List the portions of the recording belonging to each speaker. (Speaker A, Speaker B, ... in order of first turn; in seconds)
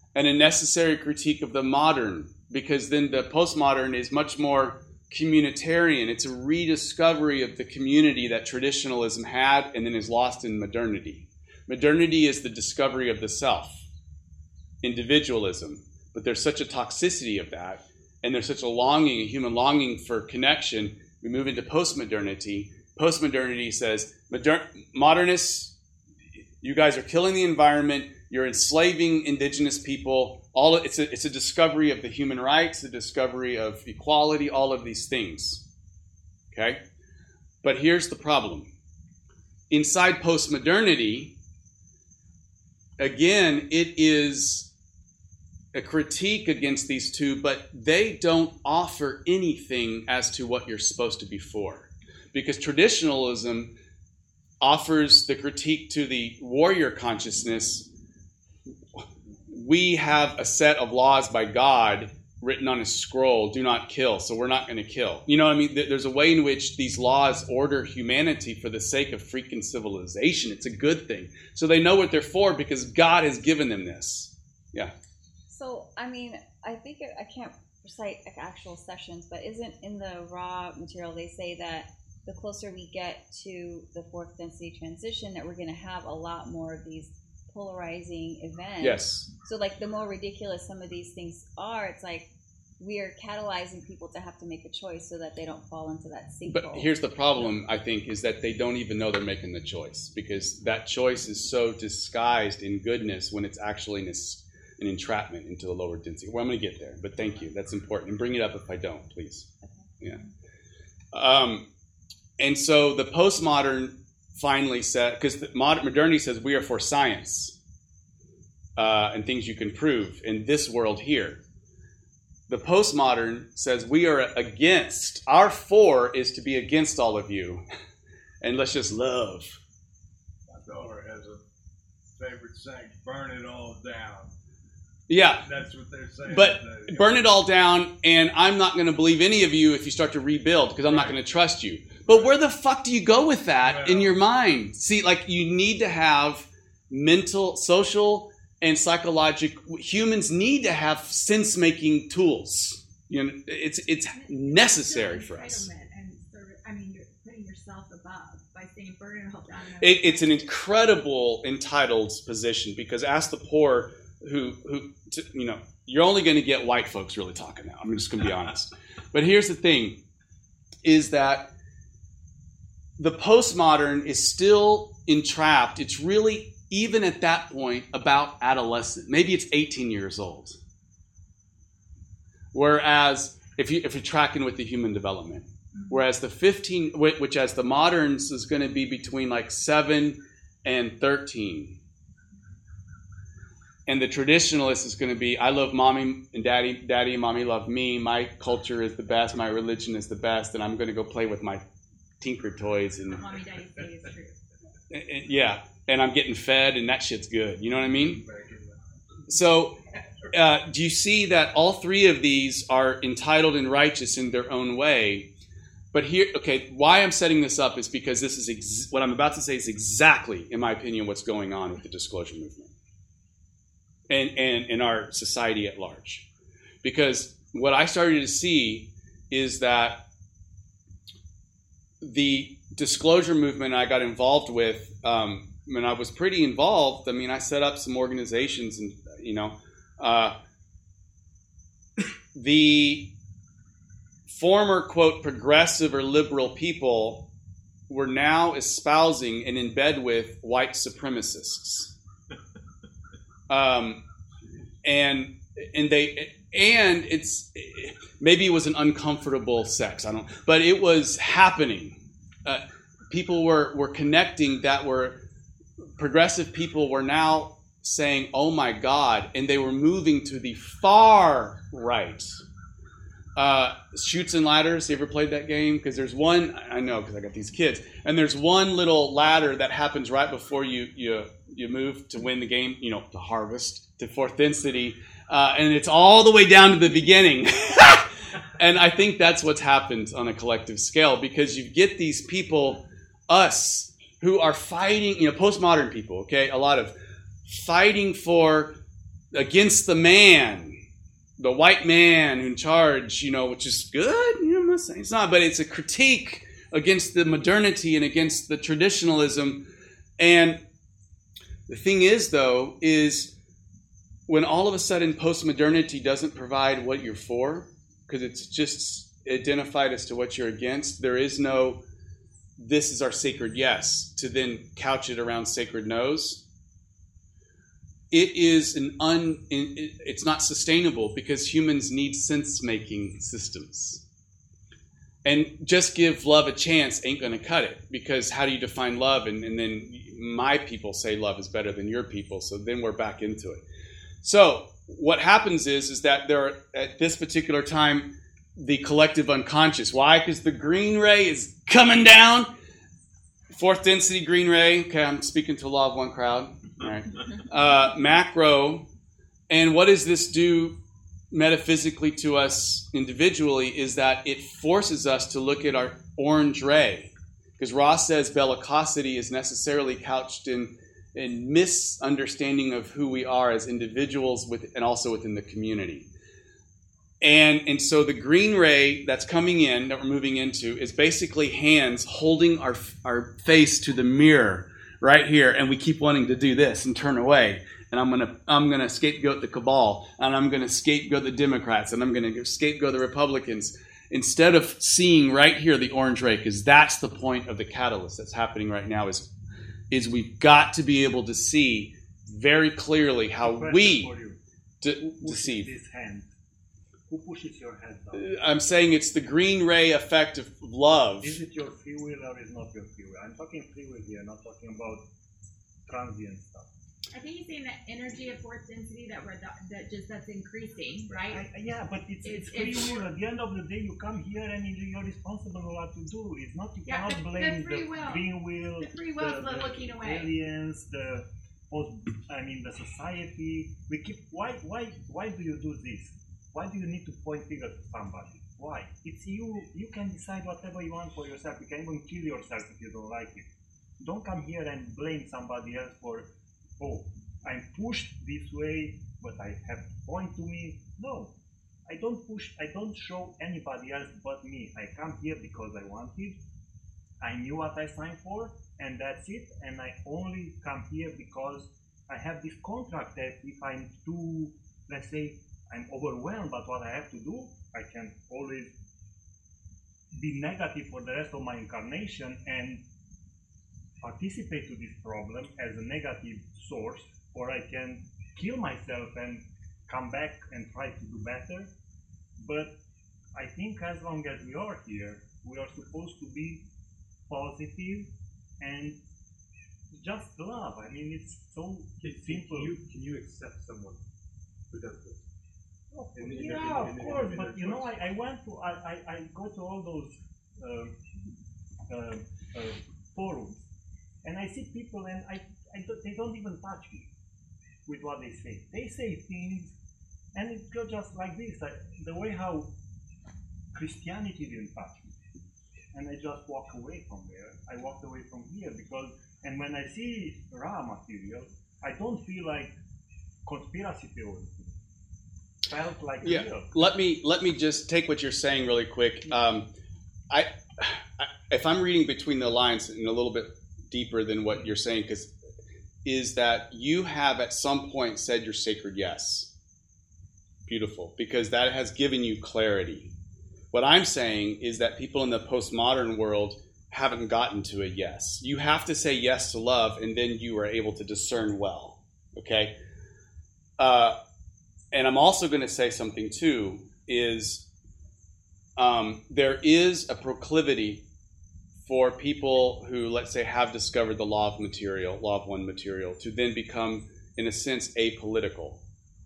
Speaker A: 0.1-13.9, 14.8-25.7, 26.6-35.6, 36.5-36.8, 37.6-38.7, 39.7-41.3, 43.0-44.7, 45.7-53.7, 54.6-57.9, 59.0-74.9, 88.8-89.3, 96.5-109.5, 111.1-111.6, 112.4-117.5, 118.8-121.4, 122.5-127.6, 128.4-129.6, 135.1-135.4, 136.2-155.7, 159.8-170.0, 170.8-171.5, 173.0-180.6, 182.5-191.7, 193.9-201.6, 202.2-203.2, 204.9-208.2, 209.3-209.7, 210.3-215.3, 215.9-222.7, 224.1-226.2, 226.8-230.0, 232.0-240.3, 242.3-243.1, 244.3-247.2, 247.9-251.9, 253.5-254.0, 254.8-265.2, 266.0-272.4, 273.4-288.1, 288.6-296.9, 297.5-298.7, 299.3-300.8, 301.4-309.6, 310.2-310.6, 311.7-313.3, 314.3-321.8, 322.6-326.4, 328.1-334.0, 335.2-343.6, 344.2-352.5, 353.5-358.8, 359.5-360.8, 361.3-376.1, 377.2-399.3, 399.9-404.1, 404.8-405.7, 408.1-411.4, 526.2-529.7, 530.3-535.3, 536.0-539.5, 540.7-543.1, 543.7-552.7, 553.8-554.1, 554.9-557.6, 558.8-561.0, 561.8-568.8
Speaker B: 75.5-92.3, 92.8-96.9
Speaker C: 130.5-131.4, 132.2-134.3, 135.4-137.2, 140.9-141.2, 142.0-142.4, 143.6-144.2, 207.8-208.8
Speaker D: 154.2-160.4, 185.7-186.0, 203.1-204.4, 417.1-421.4, 422.2-423.1, 426.9-428.3, 428.8-430.3
Speaker E: 403.4-404.4, 405.0-406.3, 407.1-408.3, 411.2-415.0, 415.9-416.7, 421.3-443.5, 444.0-446.3, 446.8-451.3, 451.9-456.4, 457.2-468.7, 470.1-472.8, 474.0-481.7, 482.4-482.7, 483.3-486.6, 487.3-488.1, 488.6-489.0, 489.9-492.8, 495.9-500.9, 501.9-503.7, 504.2-507.1, 507.9-509.8, 510.4-512.7, 513.7-515.1, 515.9-522.7, 523.5-524.7, 525.7-526.7
Speaker F: 492.0-494.0, 494.7-495.3, 496.1-498.0